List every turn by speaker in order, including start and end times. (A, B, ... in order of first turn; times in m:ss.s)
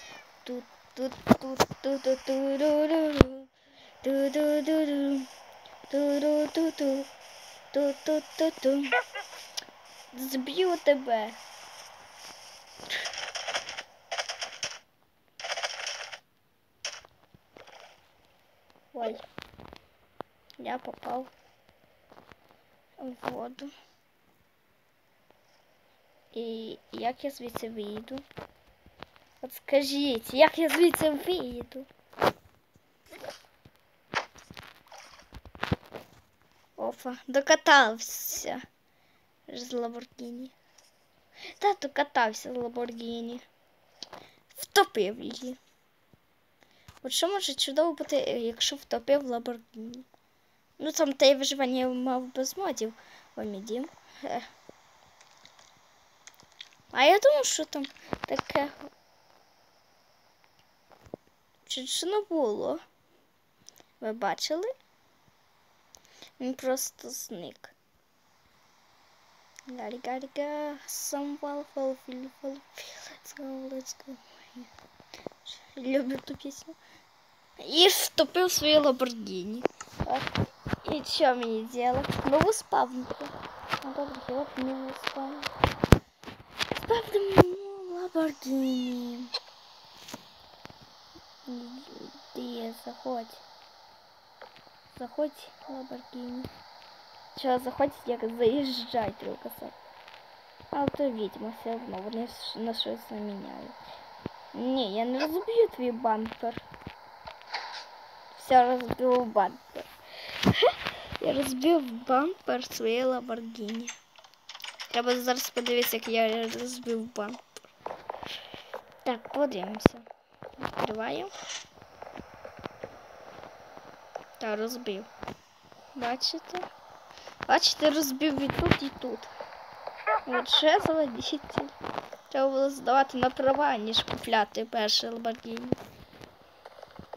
0:00.4-0:03.5 A
0:04.0-0:05.3 A
0:05.9-0:07.1 A
0:07.7-0:09.0 A
0:10.1-0:11.4 A
0:18.9-0:19.2 A
0:20.6-0:21.3 A
0:23.0-0:23.7 A
0:26.3-0:28.2 A
0:29.4-0:31.9 A
0:36.8-0:38.6 A
0:39.5-0:40.5 A
0:41.5-0:43.4 A
0:44.5-0:45.6 A
0:47.0-0:50.0 A
0:50.8-0:54.5 A
0:56.9-0:58.9 A
1:01.6-1:02.8 A
1:04.0-1:04.7 A
1:06.4-1:07.7 A
1:09.7-1:14.7 A
1:15.4-1:16.7 A
1:17.6-1:20.3 A
1:20.8-1:25.5 A
1:26.7-1:29.3 A
1:31.4-1:33.4 A
1:34.9-1:36.5 A
1:37.3-1:39.7 A
1:40.7-1:43.8 A
1:44.5-1:46.6 A
1:48.3-1:49.9 A
1:50.4-1:53.9 A
1:54.9-1:57.4 A
1:59.0-2:00.0 A
2:00.6-2:01.3 A
2:04.4-2:05.1 A
2:05.9-2:06.7 A
2:07.4-2:09.3 A
2:10.2-2:11.7 A
2:12.3-2:15.8 A